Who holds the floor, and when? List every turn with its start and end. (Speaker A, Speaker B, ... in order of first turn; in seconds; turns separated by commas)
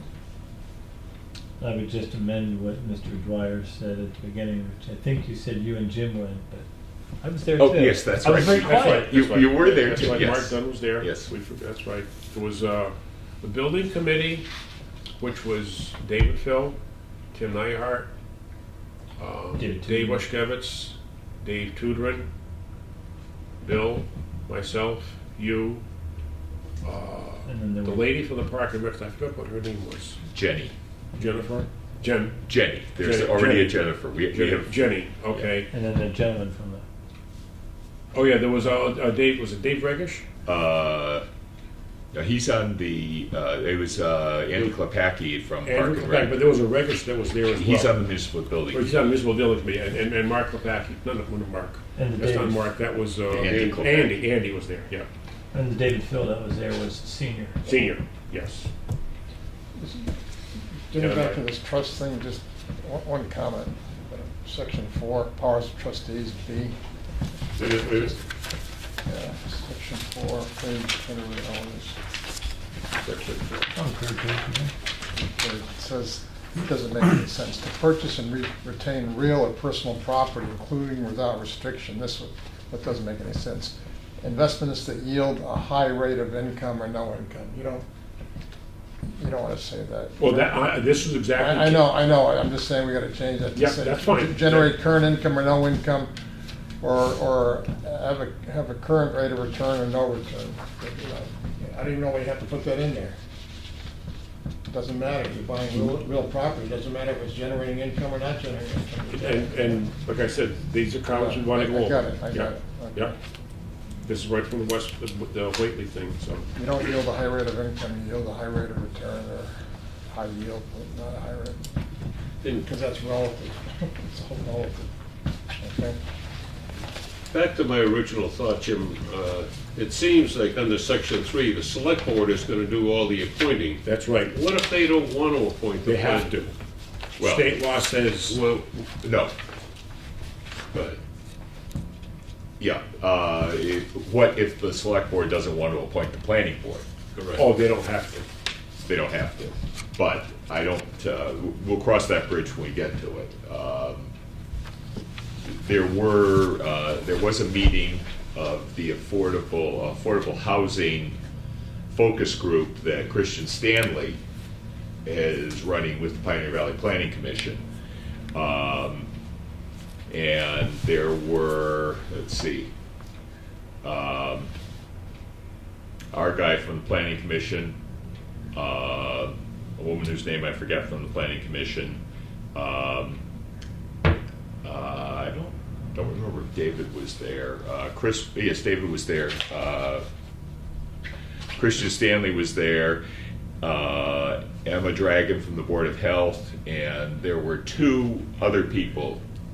Speaker A: 1.6-6.7, Speaker A: 7.2-9.1, Speaker B: 7.6-11.3, Speaker C: 8.3-14.5, Speaker C: 15.2-16.8, Speaker C: 17.3-18.1, Speaker C: 19.2-22.3, Speaker A: 19.6-20.3, Speaker C: 23.6-25.8, Speaker C: 26.8-30.2, Speaker A: 27.4-28.1, Speaker B: 30.3-30.7, Speaker C: 31.2-32.4, Speaker B: 32.5-34.8, Speaker C: 33.0-35.7, Speaker A: 35.7-36.9, Speaker C: 38.1-40.2, Speaker B: 40.5-41.3, Speaker B: 42.1-46.4, Speaker C: 45.6-48.0, Speaker B: 47.6-49.0, Speaker C: 48.7-55.1, Speaker A: 52.0-52.7, Speaker B: 53.3-54.3, Speaker A: 55.5-57.6, Speaker C: 57.6-58.7, Speaker D: 59.8-60.1, Speaker D: 60.9-66.8, Speaker C: 61.0-61.4, Speaker D: 67.5-68.2, Speaker C: 67.6-68.2, Speaker D: 69.1-72.0, Speaker C: 73.0-73.6, Speaker A: 73.8-74.7, Speaker D: 75.1-87.8, Speaker D: 89.2-90.6, Speaker C: 90.2-91.9, Speaker D: 91.3-96.1, Speaker C: 93.5-94.8, Speaker D: 96.8-103.2, Speaker D: 104.7-109.8, Speaker C: 109.1-113.1, Speaker D: 111.1-113.2, Speaker C: 114.0-116.5, Speaker D: 116.5-119.6, Speaker D: 120.1-121.6, Speaker D: 122.6-124.9, Speaker D: 125.6-126.0, Speaker E: 127.3-136.4, Speaker C: 133.8-134.3, Speaker C: 135.8-136.5, Speaker B: 137.2-137.6, Speaker C: 137.2-138.4, Speaker E: 138.3-138.8, Speaker B: 139.0-139.3, Speaker E: 140.7-141.0, Speaker B: 142.6-146.9, Speaker E: 147.2-147.4, Speaker C: 147.3-148.2, Speaker B: 148.8-154.1, Speaker B: 155.4-161.2, Speaker B: 161.9-164.2, Speaker B: 165.1-167.7, Speaker B: 168.3-169.1, Speaker B: 170.1-172.7, Speaker B: 173.8-174.5, Speaker B: 176.1-177.8, Speaker B: 178.5-182.0, Speaker B: 182.5-183.2, Speaker B: 184.6-190.1, Speaker B: 191.6-193.0, Speaker B: 193.6-199.2